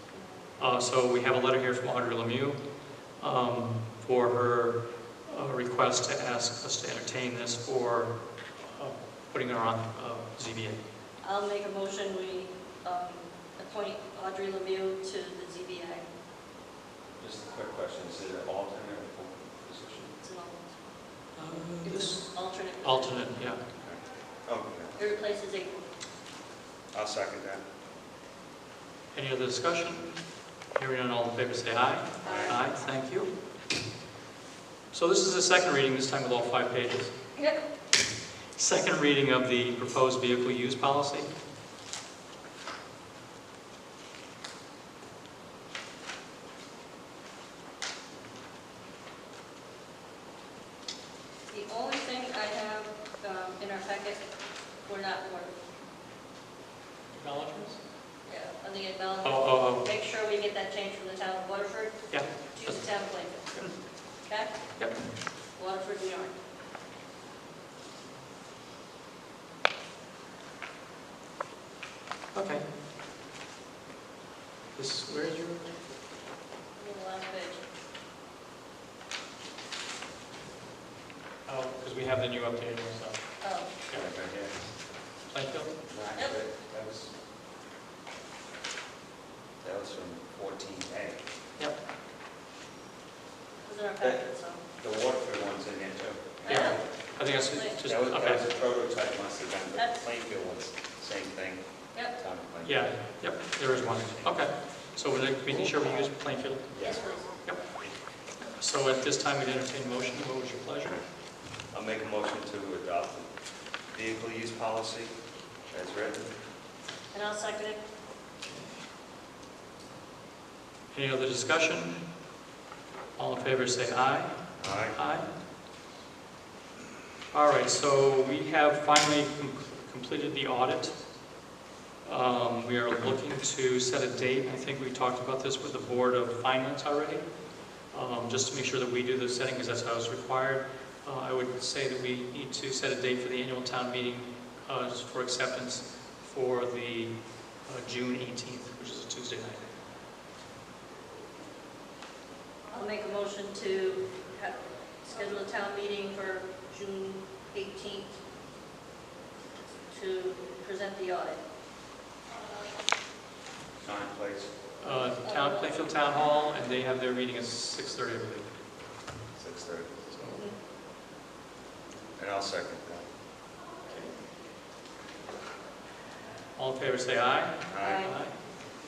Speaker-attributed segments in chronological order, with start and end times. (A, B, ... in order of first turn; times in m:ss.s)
0:00.6-0:02.6 A
0:03.2-0:10.8 A
0:11.2-0:16.1 B
0:17.2-0:20.1 C
0:20.2-0:20.7 B
0:21.4-0:22.3 A
0:21.8-0:23.3 B
0:22.8-0:23.6 A
0:23.8-0:25.0 C
0:25.0-0:25.8 B
0:26.9-0:27.6 C
0:29.1-0:30.1 A
0:30.7-0:33.3 A
0:34.9-0:37.1 A
0:38.6-0:41.3 A
0:51.5-0:54.2 B
0:54.8-0:55.6 B
0:57.1-0:57.8 A
0:58.3-1:02.0 B
0:59.2-0:59.9 A
1:02.1-1:02.8 A
1:02.6-1:03.4 B
1:04.3-1:04.5 B
1:05.6-1:06.3 B
1:12.3-1:12.7 A
1:14.8-1:15.7 A
1:16.8-1:17.6 B
1:21.4-1:23.2 A
1:23.4-1:23.7 B
1:23.9-1:24.7 C
1:25.3-1:25.7 A
1:25.9-1:27.1 C
1:29.6-1:31.2 C
1:33.7-1:34.6 B
1:34.8-1:36.8 C
1:36.4-1:36.8 B
1:36.5-1:38.4 A
1:37.3-1:37.8 B
1:37.8-1:42.9 C
1:39.8-1:40.0 B
1:42.6-1:46.7 A
1:43.7-1:44.4 C
1:46.7-1:47.0 C
1:46.8-1:47.3 B
1:48.6-1:51.0 A
1:51.7-1:53.3 C
1:53.9-1:55.1 C
1:55.7-1:56.3 C
1:57.1-1:57.8 B
2:00.9-2:02.0 A
2:03.2-2:04.3 A
2:04.6-2:05.0 C
2:04.9-2:05.3 A
2:07.3-2:11.0 A
2:12.0-2:17.3 A
2:17.9-2:27.1 A
2:27.7-2:29.6 A
2:32.7-2:38.2 B
2:39.9-2:41.4 B
2:43.8-2:44.5 C
2:44.8-2:48.5 A
2:45.1-2:45.9 B
2:49.4-2:49.9 C
2:50.1-2:50.4 A
2:52.2-2:53.1 C
2:56.6-2:58.3 A
2:57.7-2:58.1 C
2:57.8-2:58.2 B